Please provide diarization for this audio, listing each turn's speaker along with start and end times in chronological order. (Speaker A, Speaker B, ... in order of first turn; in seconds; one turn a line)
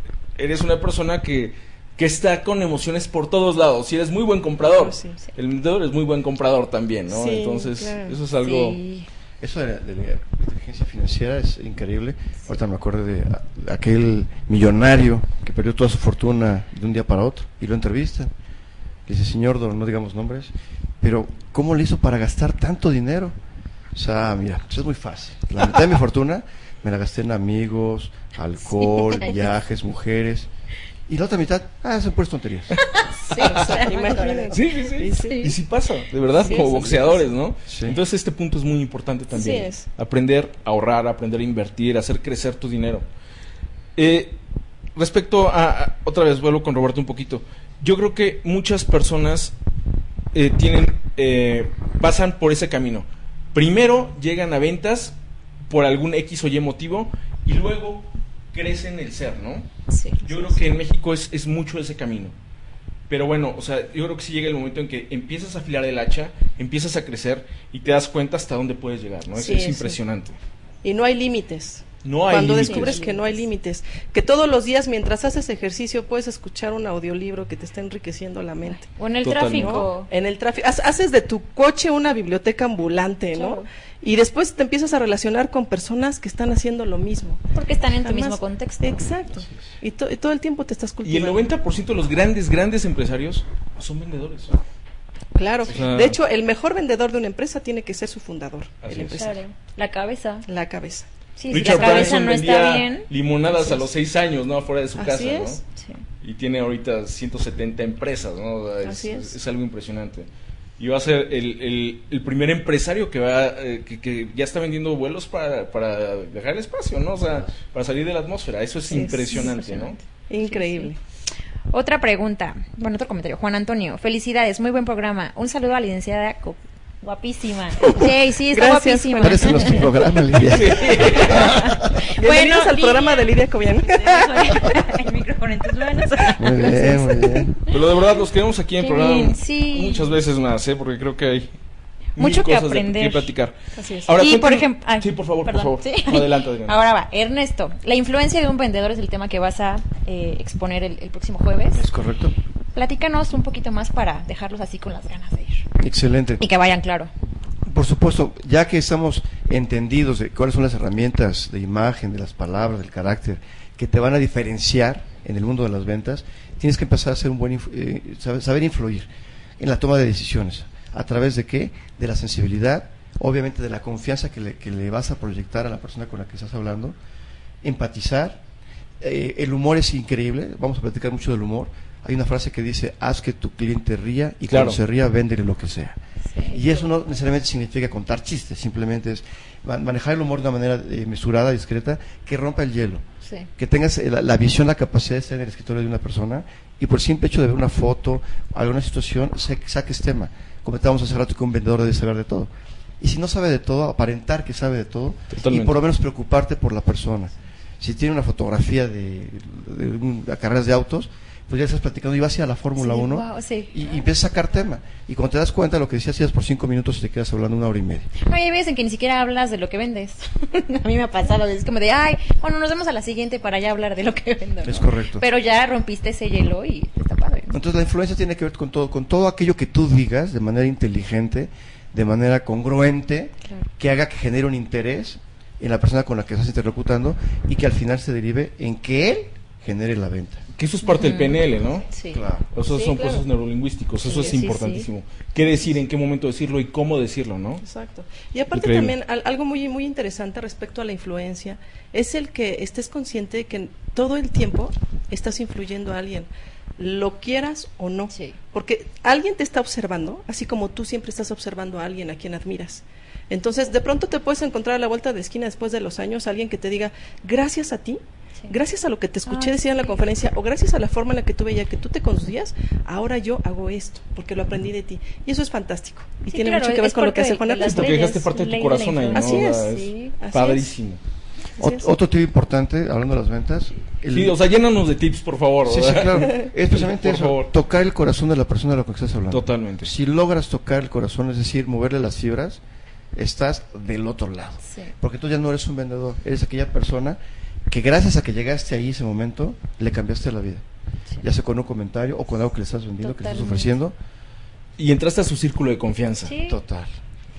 Speaker A: 0.4-8.8
Speaker B: 4.6-5.2
Speaker B: 7.1-8.2
Speaker C: 8.4-9.1
Speaker D: 9.4-18.3
Speaker D: 19.1-23.3
Speaker D: 23.9-30.5
Speaker C: 28.8-29.4
Speaker D: 31.1-32.8
Speaker C: 32.8-34.6
Speaker B: 33.4-35.5
Speaker A: 33.4-33.8
Speaker A: 34.5-43.0
Speaker B: 36.4-36.9
Speaker C: 36.4-37.3
Speaker D: 37.7-38.0
Speaker B: 39.3-39.9
Speaker C: 39.3-39.6
Speaker A: 44.0-44.4
Speaker A: 45.0-49.5
Speaker A: 50.3-55.1
Speaker A: 55.7-59.7
Speaker C: 59.9-60.5
Speaker A: 60.2-62.4
Speaker A: 63.1-70.4
Speaker B: 69.3-70.0
Speaker B: 70.8-78.9
Speaker A: 72.0-73.0
Speaker C: 72.6-73.4
Speaker C: 78.9-80.1
Speaker A: 79.2-79.9
Speaker B: 79.5-87.4
Speaker C: 83.3-83.7
Speaker C: 87.5-89.0
Speaker B: 88.0-91.5
Speaker A: 91.0-94.6
Speaker B: 95.3-99.4
Speaker A: 95.7-96.2
Speaker A: 98.8-99.2
Speaker C: 99.1-100.5
Speaker B: 100.5-102.2
Speaker C: 101.4-103.8
Speaker A: 101.5-105.6
Speaker B: 105.0-105.6
Speaker A: 106.2-110.3
Speaker B: 108.8-109.3
Speaker A: 110.8-120.0
Speaker B: 118.9-121.0
Speaker C: 118.9-120.9
Speaker C: 121.7-129.9
Speaker B: 127.8-130.0
Speaker D: 129.2-132.1
Speaker A: 130.3-131.7
Speaker B: 131.0-131.4
Speaker C: 131.3-133.3
Speaker B: 132.1-134.7
Speaker C: 133.8-137.5
Speaker D: 136.4-137.6
Speaker A: 137.7-141.6
Speaker C: 138.8-140.2
Speaker A: 142.2-146.8
Speaker C: 142.2-143.3
Speaker B: 143.8-144.2
Speaker C: 144.2-151.8
Speaker D: 151.7-152.4
Speaker C: 152.8-155.7
Speaker D: 155.8-156.4
Speaker C: 156.4-157.1
Speaker D: 157.7-169.1
Speaker D: 169.6-177.0
Speaker D: 177.6-178.4
Speaker D: 179.0-186.0
Speaker A: 184.5-184.8
Speaker C: 186.3-186.6
Speaker D: 186.5-193.0
Speaker C: 193.2-193.5
Speaker D: 193.6-218.1
Speaker A: 205.3-205.8
Speaker C: 212.8-213.8
Speaker C: 218.2-227.6
Speaker D: 224.6-225.3
Speaker D: 227.5-240.4
Speaker A: 240.6-241.8
Speaker C: 240.9-243.2
Speaker D: 242.1-242.5
Speaker A: 242.6-247.6
Speaker C: 244.0-244.9
Speaker B: 244.1-244.4
Speaker B: 247.6-278.0
Speaker A: 248.5-248.9
Speaker C: 258.1-258.4
Speaker C: 269.3-270.0
Speaker C: 276.3-280.2
Speaker A: 277.6-281.0
Speaker B: 279.1-280.7
Speaker B: 281.6-281.9
Speaker D: 281.6-284.4
Speaker A: 284.1-287.5
Speaker D: 285.6-292.6
Speaker A: 289.3-289.9
Speaker D: 293.1-300.6
Speaker C: 294.7-294.9
Speaker D: 301.2-303.9
Speaker C: 303.0-303.7
Speaker A: 304.8-306.4
Speaker C: 306.2-306.6
Speaker D: 306.5-307.0